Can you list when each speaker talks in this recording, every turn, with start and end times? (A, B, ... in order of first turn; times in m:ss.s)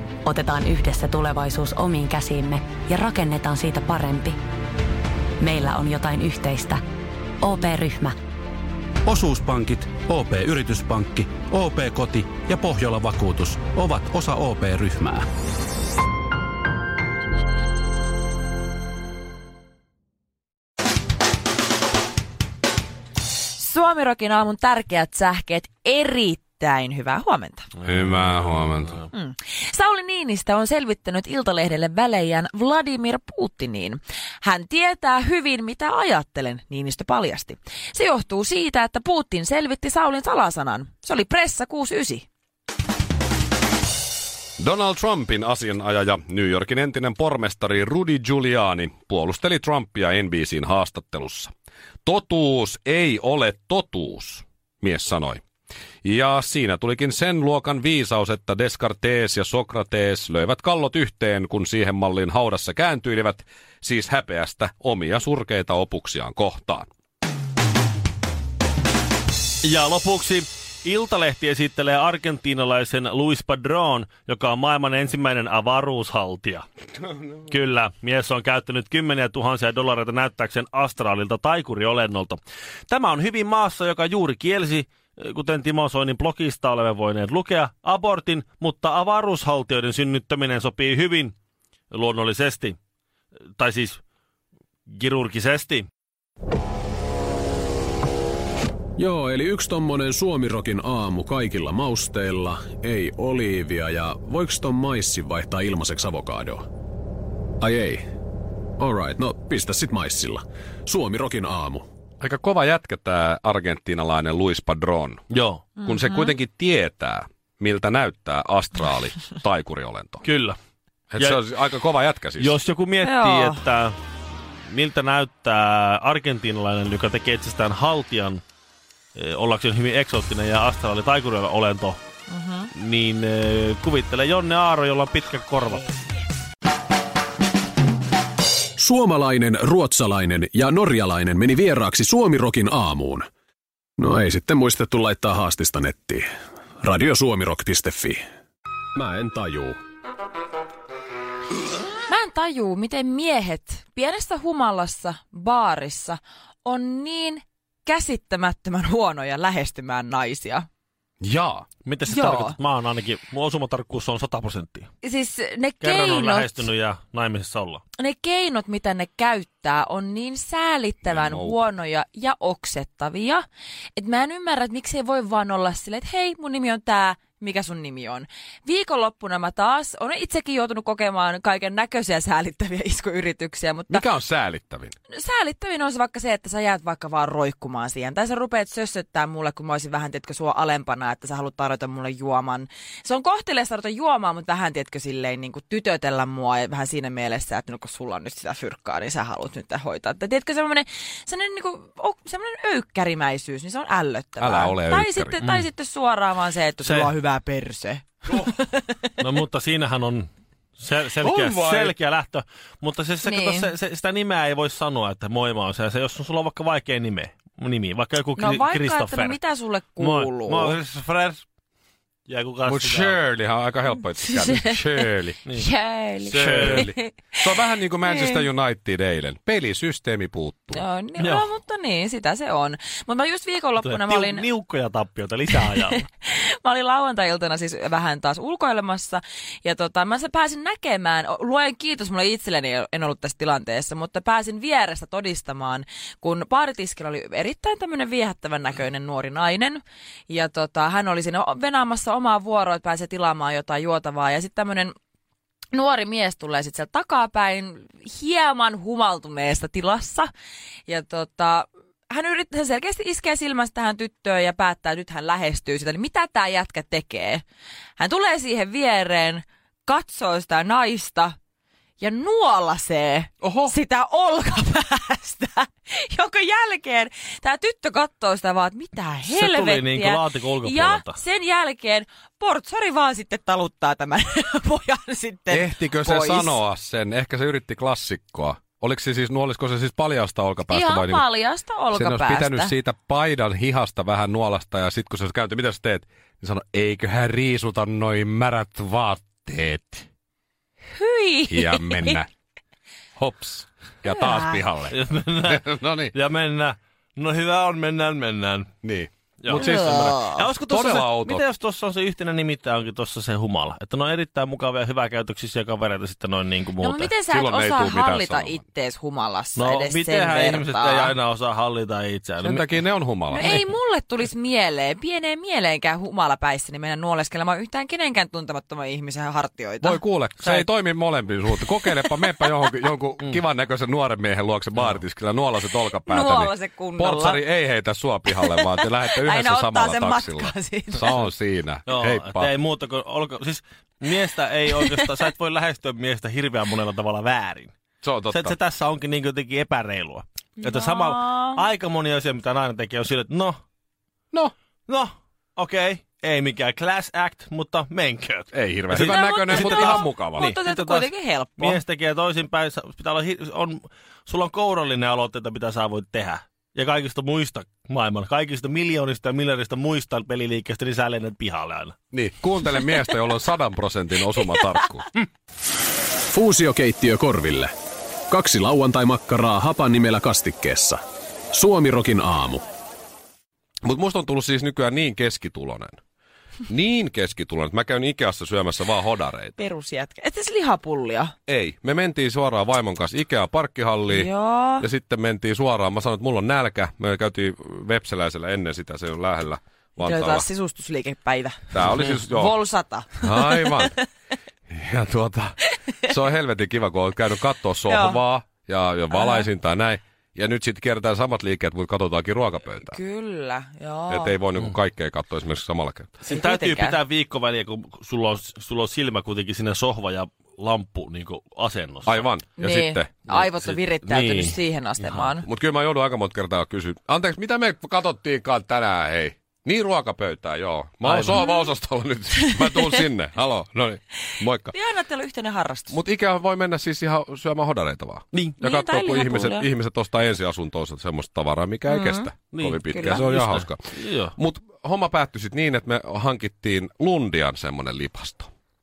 0:00.2-0:04.4 A
0:05.4-0:06.8 A
0:07.4-0:08.2 A
0:09.0-0:15.2 B
0:23.5-0:27.7 C
0:27.8-0:29.0 D
0:29.1-0:42.3 C
0:44.6-0:51.5 D
0:52.0-0:55.4 D
0:56.0-1:06.8 D
1:09.6-1:16.6 E
1:17.4-1:31.3 E
1:31.9-1:32.8 E
1:33.6-1:34.0 E
1:34.9-1:35.9 E
1:39.0-1:46.6 F
1:47.6-1:48.1 F
1:48.8-1:51.8 F
1:52.2-1:55.2 D
1:55.3-1:55.7 E
1:55.8-1:56.3 C
1:55.8-2:00.2 D
2:00.2-2:00.6 E
2:01.1-2:02.6 D
2:01.2-2:01.6 E
2:02.4-2:04.0 E
2:03.0-2:03.6 C
2:04.6-2:08.4 E
2:09.1-2:12.0 E
2:12.3-2:12.7 C
2:12.7-2:15.9 E
2:18.8-2:23.3 F
2:24.0-2:26.3 F
2:26.8-2:28.2 F
2:28.9-2:29.8 F
2:32.0-2:40.7 C
2:41.2-2:41.6 D
2:41.8-2:44.9 E
2:42.1-2:42.5 C
2:45.0-2:46.7 C
2:45.8-2:47.8 E
2:48.0-2:53.4 C
2:51.0-2:51.6 D
2:54.0-3:04.1 C
3:03.9-3:04.9 D
3:05.1-3:29.2 C
3:24.4-3:25.4 D
3:26.8-3:27.1 E
3:29.2-3:39.4 E
3:31.2-3:31.9 D
3:33.2-3:33.7 C
3:38.4-3:40.8 C
3:40.0-3:41.4 E
3:42.3-3:43.2 E
3:42.7-3:45.4 D
3:44.2-3:47.4 C
3:46.2-3:46.9 E
3:46.3-3:50.8 D
3:48.0-3:48.4 C
3:50.7-3:54.4 C
3:51.2-3:51.5 E
3:53.8-3:56.0 E
3:55.7-4:14.9 C
4:15.7-4:20.3 C
4:20.9-4:27.4 C
4:28.0-4:31.3 C
4:32.0-4:46.6 C
4:33.4-4:33.7 D
4:39.2-4:41.2 E
4:45.5-4:51.2 D
4:50.7-4:52.7 C
4:51.9-5:00.0 D
5:00.9-5:02.2 C
5:01.5-5:02.3 D
5:03.2-5:06.1 D
5:04.0-5:04.6 C
5:04.9-5:08.7 E
5:08.8-5:09.9 D
5:09.4-5:17.1 E
5:09.5-5:10.5 C
5:10.6-5:11.4 D
5:16.8-5:21.1 C
5:17.3-5:18.6 D
5:19.6-5:22.8 E
5:22.4-5:23.6 D
5:23.3-5:30.6 C
5:23.4-5:23.6 E
5:29.8-5:42.5 D
5:31.9-5:32.3 C
5:34.7-5:35.0 E
5:35.9-5:37.4 C
5:38.6-5:41.2 C
5:41.9-5:47.7 E
5:44.8-5:45.1 C
5:48.0-5:48.5 D
5:48.3-5:53.6 E
5:50.6-5:51.6 C
5:54.9-6:11.9 E
5:58.5-6:00.5 D
5:59.0-6:01.8 C
6:12.1-6:15.0 D
6:16.3-6:17.7 F
6:18.3-6:21.0 F
6:21.5-6:22.6 F
6:23.8-6:26.0 D
6:26.7-6:29.5 D
6:29.6-6:31.3 C
6:31.5-6:40.4 D
6:34.1-6:34.8 C
6:40.0-6:44.0 C
6:41.7-6:42.6 D
6:43.2-6:44.0 D
6:44.7-6:53.0 D
6:47.8-6:48.2 C
6:49.1-6:49.5 C
6:52.8-6:54.3 C
6:54.1-6:56.2 D
6:56.2-7:02.3 E
6:56.2-6:57.0 C
7:02.0-7:03.1 D
7:02.6-7:05.4 C
7:03.3-7:05.3 E
7:05.4-7:14.7 D
7:11.0-7:11.5 E
7:11.3-7:11.7 C
7:12.3-7:12.9 C
7:14.7-7:16.0 C
7:15.9-7:28.5 D
7:18.3-7:18.6 E
7:18.6-7:19.7 C
7:21.9-7:22.3 C
7:22.5-7:24.4 E
7:22.9-7:23.2 C